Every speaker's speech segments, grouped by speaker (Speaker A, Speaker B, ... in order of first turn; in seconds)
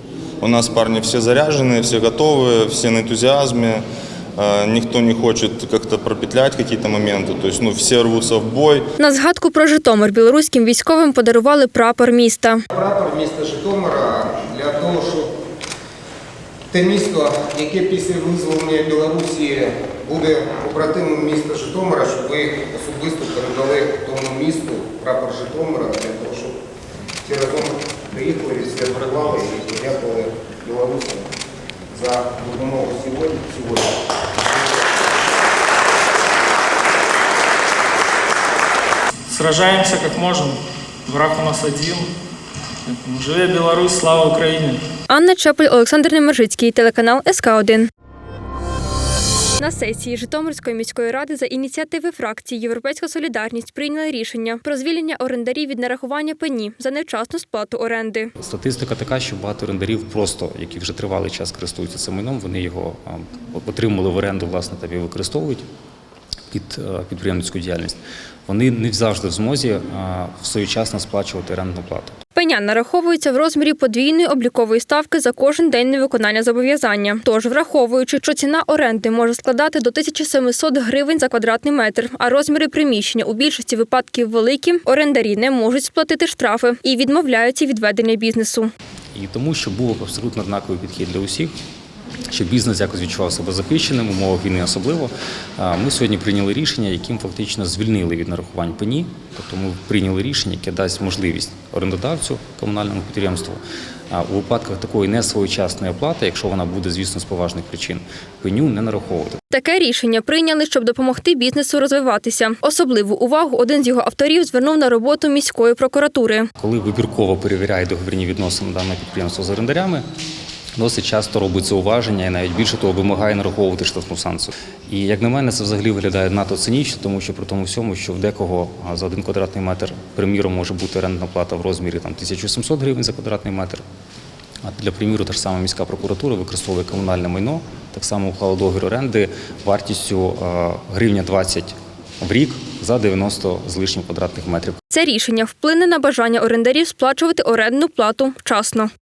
Speaker A: 0.4-3.8, 4.4-8.9
Speaker B: 9.0-12.6, 45.1-47.9, 49.6-58.3, 72.3-88.7, 109.5-116.5, 144.9-148.9
Speaker C: 12.7-15.3, 16.7-26.6, 27.2-31.3, 31.9-34.0
Speaker D: 39.3-42.1, 42.9-44.8
Speaker E: 58.4-65.6, 66.5-68.0, 68.5-72.2, 89.1-91.5, 92.3-103.6, 104.1-109.4, 116.6-120.0, 120.8-133.8, 134.6-144.8